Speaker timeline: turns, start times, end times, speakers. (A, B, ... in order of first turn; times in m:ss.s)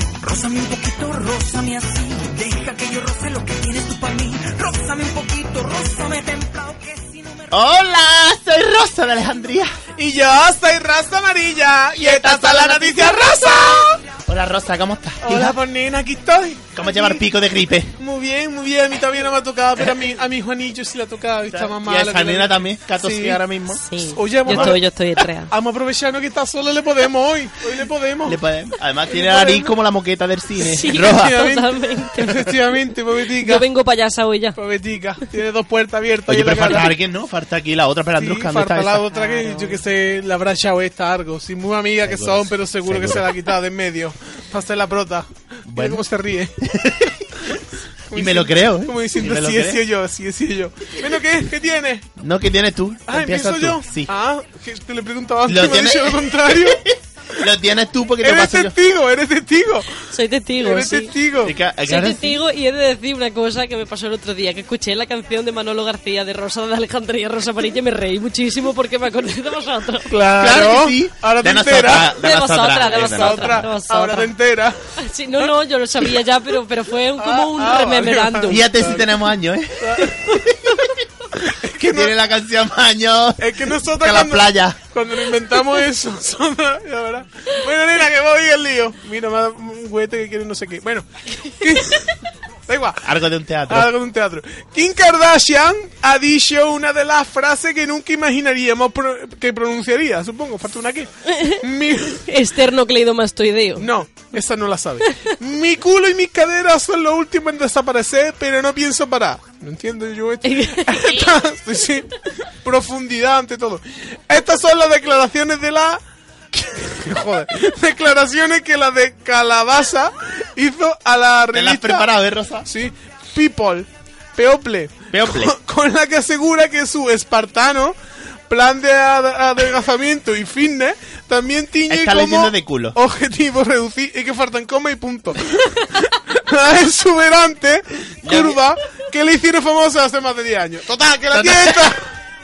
0:00.2-0:07.1 A
0:07.5-0:09.7 B
0:10.0-0:14.0 C
0:12.0-0:13.5 B
0:14.3-0:15.6 B
0:15.2-0:17.2 C
0:16.8-0:18.0 B
0:18.0-0:23.4 C
0:21.5-0:23.8 B
0:23.7-0:25.5 D
0:24.1-0:24.9 C
0:24.4-0:24.8 B
0:25.5-0:28.4 C
0:28.2-0:31.5 B
0:29.1-0:29.7 C
0:30.6-0:32.6 D
0:30.9-0:33.7 C
0:33.4-0:34.6 D
0:34.6-0:37.0 C
0:36.3-0:39.1 B
0:38.2-0:52.1 C
0:39.1-0:39.8 D
0:42.0-0:43.4 B
0:45.7-0:46.0 B
0:46.6-0:47.6 B
0:48.1-0:49.8 B
0:52.2-0:54.1 B
0:53.1-0:57.5 C
0:55.5-0:58.8 B
0:58.2-1:00.1 C
1:00.0-1:01.1 D
1:00.6-1:01.6 C
1:01.4-1:02.4 B
1:01.8-1:10.1 D
1:10.1-1:12.2 C
1:10.3-1:13.7 B
1:12.0-1:14.3 D
1:12.8-1:15.5 C
1:15.0-1:18.6 D
1:17.2-1:20.6 C
1:18.5-1:20.9 B
1:21.4-1:22.2 C
1:21.7-1:24.8 B
1:23.4-1:33.2 C
1:33.0-1:33.9 B
1:33.7-1:42.3 C
1:41.3-1:41.6 D
1:42.2-1:43.9 D
1:43.8-1:56.0 C
1:50.4-1:51.4 D
1:56.5-2:02.1 C
2:01.5-2:02.7 B
2:02.6-2:08.0 C
2:05.1-2:05.6 B
2:08.5-2:22.1 C
2:11.9-2:13.0 B
2:18.2-2:18.6 B
2:21.3-2:22.0 B